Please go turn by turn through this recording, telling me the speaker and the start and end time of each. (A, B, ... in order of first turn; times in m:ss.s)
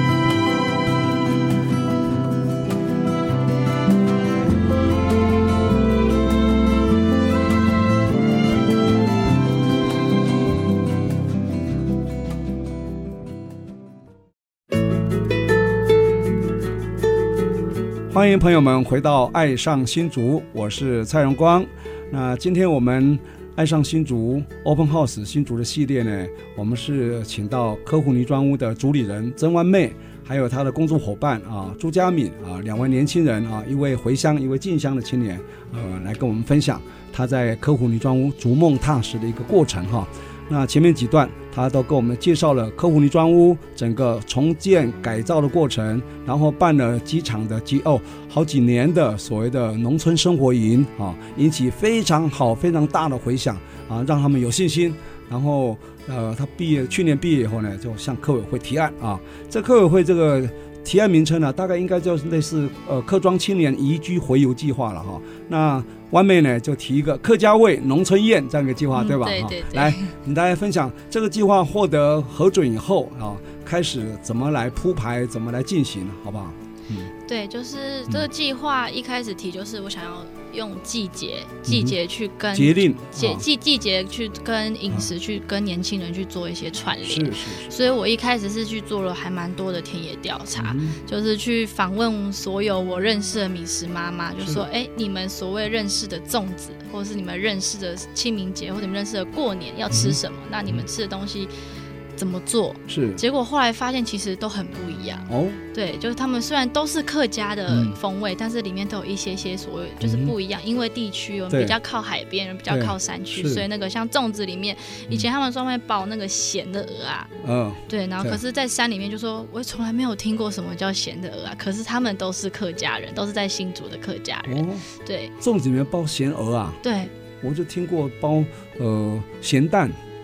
0:18.1-1:17.1 A
1:08.9-1:10.1 B
1:17.2-1:41.5 B
1:21.7-1:22.0 A
1:22.5-1:23.5 A
1:27.0-1:27.7 A
1:30.6-1:31.0 A
1:39.9-1:40.8 A
1:42.2-1:57.3 B
1:42.9-1:43.2 A
1:45.3-1:45.6 A
1:47.7-1:48.0 A
1:50.0-1:50.4 A
1:51.5-1:51.8 A
1:52.7-1:53.6 A
1:57.4-1:58.4 A
1:57.9-2:05.3 B
2:04.5-2:04.8 A
2:05.4-2:06.8 A
2:06.8-2:07.1 B
2:07.4-2:10.0 A